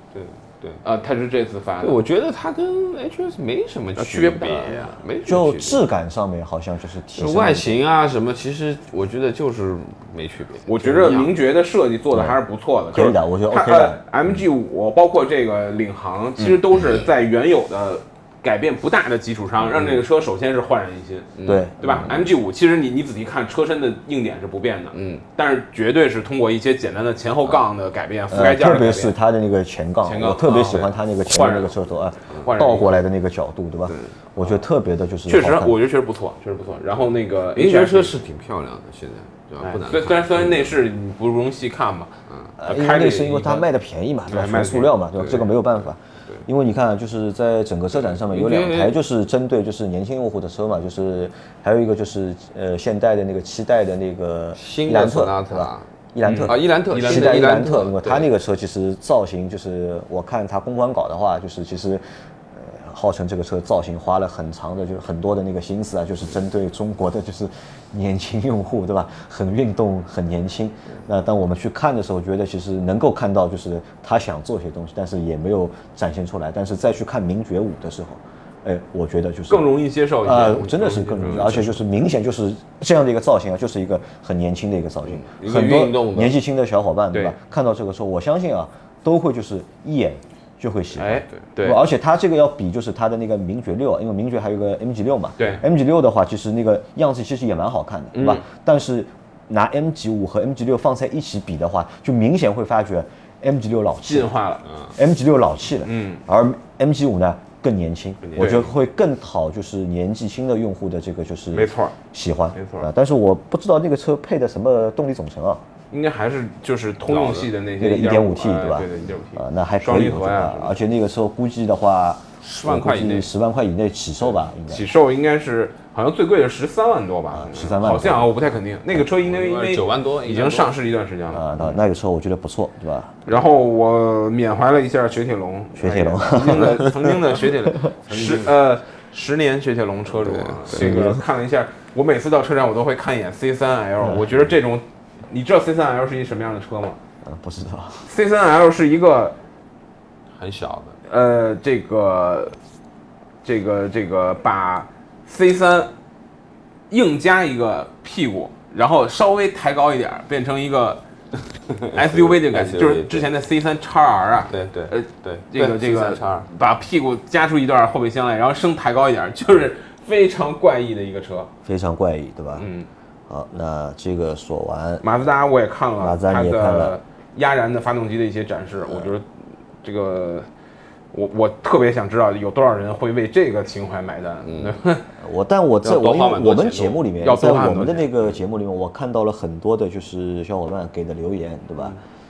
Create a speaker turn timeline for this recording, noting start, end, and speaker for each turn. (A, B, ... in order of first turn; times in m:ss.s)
0:00.1-0:00.8 A
0:00.8-0:02.0 B
0:01.8-0:05.8 A
0:04.0-0:04.9 B
0:05.2-0:07.8 C
0:07.1-0:11.3 A
0:10.7-0:29.1 B
0:12.1-0:12.4 C
0:12.9-0:14.0 C
0:21.4-0:22.2 A
0:21.4-0:22.1 C
0:24.9-0:25.2 A
0:28.3-0:35.8 C
0:30.0-0:31.8 B
0:32.4-0:32.9 B
0:35.3-0:38.1 B
0:37.6-0:40.8 A
0:39.6-0:43.6 B
0:42.6-1:44.4 C
0:44.3-0:45.0 B
0:45.2-0:45.5 A
0:48.2-0:49.0 A
0:54.6-0:55.9 A
0:56.2-0:57.6 B
0:56.4-0:58.3 A
1:19.5-1:21.7 B
1:21.2-1:21.7 A
1:25.0-1:26.4 A
1:30.9-1:31.8 B
1:38.1-1:38.4 B
1:44.0-1:44.7 B
1:44.9-1:55.6 C
1:45.8-1:46.2 B
1:48.2-1:48.7 A
1:48.4-1:48.6 B
1:51.5-1:51.9 B
1:52.5-1:52.9 B
1:55.9-2:00.8 B
1:57.0-1:57.5 A
1:57.8-2:04.9 C
2:02.4-2:03.2 B
2:04.7-2:11.5 B
2:07.3-2:08.3 C
2:09.2-2:10.8 A
2:11.3-2:13.2 C
2:13.2-2:27.0 B
2:15.8-2:17.1 C
2:18.1-2:18.5 A
2:20.1-2:20.9 A
2:20.7-2:21.2 C
2:24.0-2:24.5 C
2:27.2-2:28.0 C
2:28.0-2:29.4 B
2:30.4-2:31.0 A
2:31.1-2:32.6 B
2:33.4-2:35.9 B
2:36.9-2:41.0 B
2:41.7-2:43.3 A
2:41.9-2:51.5 B
2:44.5-2:46.5 A
2:51.6-2:52.7 C
2:52.5-2:52.9 B
2:53.3-2:55.0 C
2:55.0-2:59.2 B
2:56.0-2:57.0 C
2:59.8-3:00.5 B
3:01.1-3:05.1 B
3:04.4-3:04.8 A
3:05.2-3:12.0 C
3:05.8-3:07.1 A
3:07.2-3:08.1 B